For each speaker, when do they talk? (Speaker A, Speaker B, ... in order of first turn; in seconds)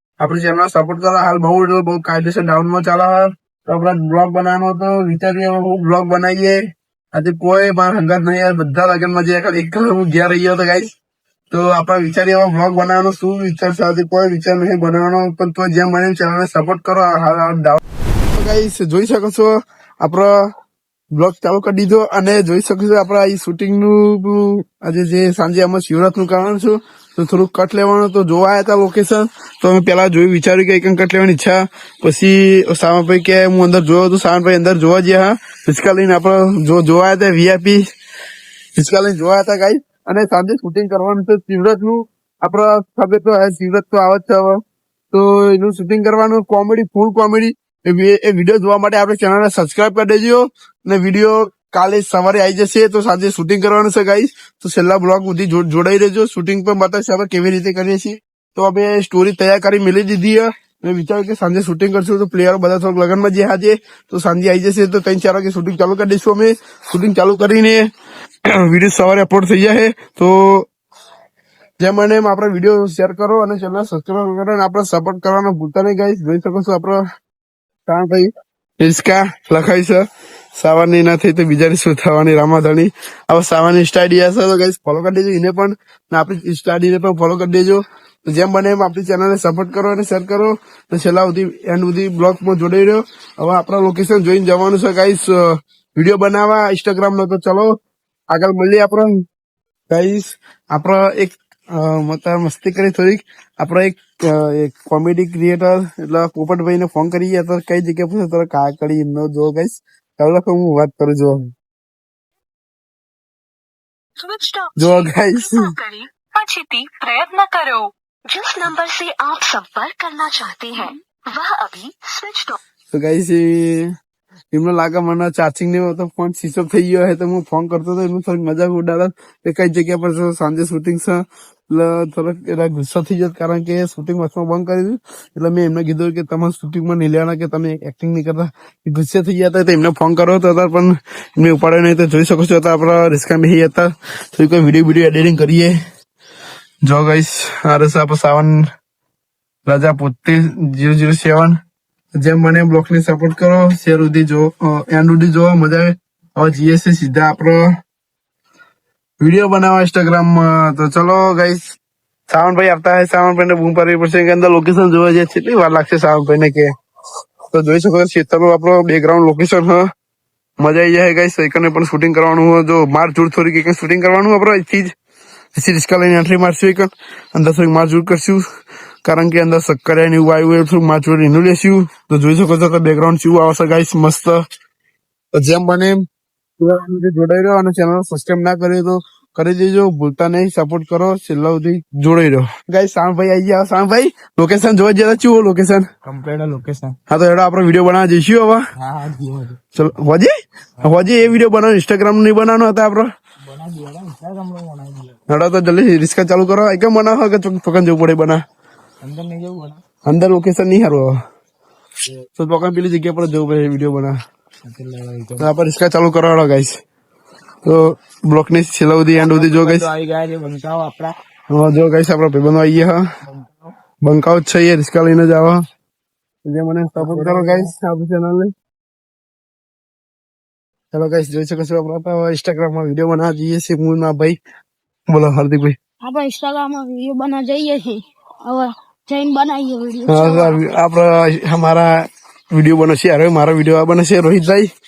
Speaker A: 0.2-6.6, 7.1-10.9, 11.5-17.8, 18.3-20.5, 21.1-37.8, 38.8-44.6, 45.1-67.9, 68.6-70.7, 71.8-77.0, 77.9-97.7, 98.3-99.2, 99.9-111.5, 114.8-115.7, 122.9-123.9, 124.5-145.7, 146.8-148.6, 149.7-151.6, 152.2-157.7, 159.2-161.6, 162.3-166.7, 167.5-169.8, 170.6-174.9, 175.5-178.4, 179.0-184.4, 185.3-186.0, 186.6-195.8, 197.1-198.6, 199.7-203.1, 205.3-208.4, 210.0-211.2, 212.3-214.2, 215.4-216.8, 217.6-219.9, 221.5-223.0, 224.0-225.6, 226.4-228.5, 230.9-234.4, 235.1-235.8, 240.1-244.7
Speaker B: 114.2-122.6
Speaker C: 196.0-196.9, 198.8-199.6, 200.8-201.4, 203.4-205.2, 209.0-209.8, 214.6-215.5, 219.1-221.1, 223.3-223.7, 226.9-227.7
Speaker D: 236.0-240.6